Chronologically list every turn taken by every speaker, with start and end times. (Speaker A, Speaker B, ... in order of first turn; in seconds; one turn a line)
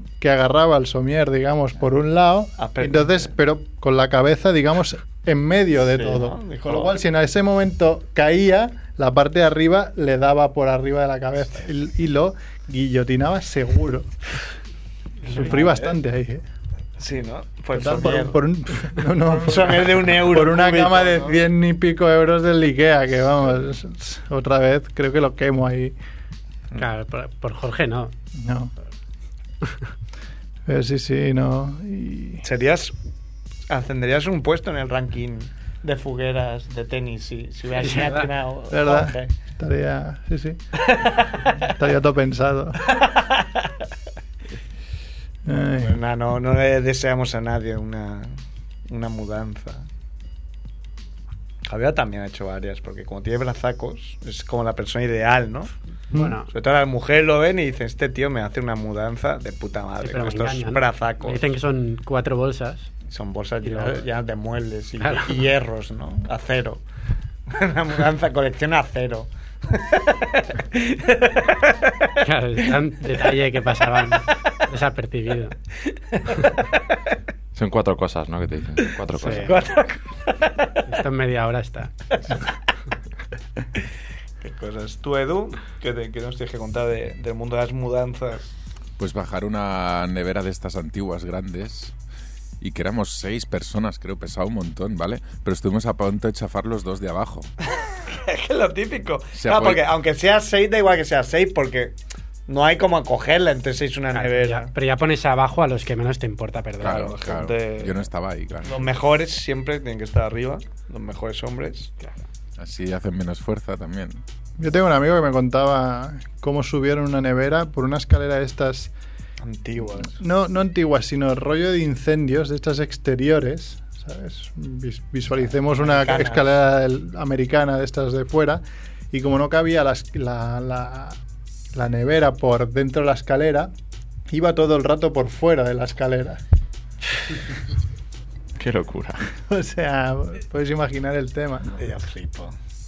Speaker A: 0.2-14.1
Speaker B: 2.6-3.3
Speaker B: 5.9-7.0
Speaker B: 15.2-16.0
Speaker A: 15.2-16.4
Speaker B: 17.0-21.4
Speaker A: 17.7-25.9
Speaker C: 26.8-28.1
Speaker A: 28.4-28.7
Speaker A: 30.6-32.4
Speaker B: 32.4-32.9
Speaker B: 33.7-39.3
Speaker C: 37.8-38.3
Speaker A: 38.7-40.8
Speaker B: 40.9-41.5
Speaker A: 41.6-42.9
Speaker B: 43.0-43.6
Speaker A: 45.4-46.0
Speaker B: 45.8-49.9
Speaker B: 51.6-55.7
Speaker A: 56.1-56.4
Speaker C: 56.1-56.5
Speaker B: 56.5-61.4
Speaker C: 60.0-62.9
Speaker B: 63.1-66.8
Speaker C: 63.6-64.0
Speaker C: 65.0-65.4
Speaker B: 67.5-72.1
Speaker C: 72.2-75.5
Speaker D: 77.5-79.5
Speaker B: 78.8-80.8
Speaker C: 79.2-79.6
Speaker C: 80.8-82.1
Speaker B: 84.4-88.5
Speaker E: 89.0-91.9
Speaker E: 92.6-97.5
Speaker B: 98.0-101.9
Speaker E: 99.3-99.8
Speaker B: 102.5-104.7
Speaker C: 104.2-107.2
Speaker E: 106.8-108.9
Speaker B: 106.8-108.1
Speaker B: 108.6-111.9
Speaker E: 112.6-114.2
Speaker A: 114.6-118.9
Speaker B: 119.4-120.2
Speaker A: 120.1-131.2
Speaker B: 125.5-126.5
Speaker A: 131.7-133.7
Speaker A: 134.3-136.4
Speaker D: 138.6-139.3
Speaker A: 139.5-141.8
Speaker B: 141.8-142.6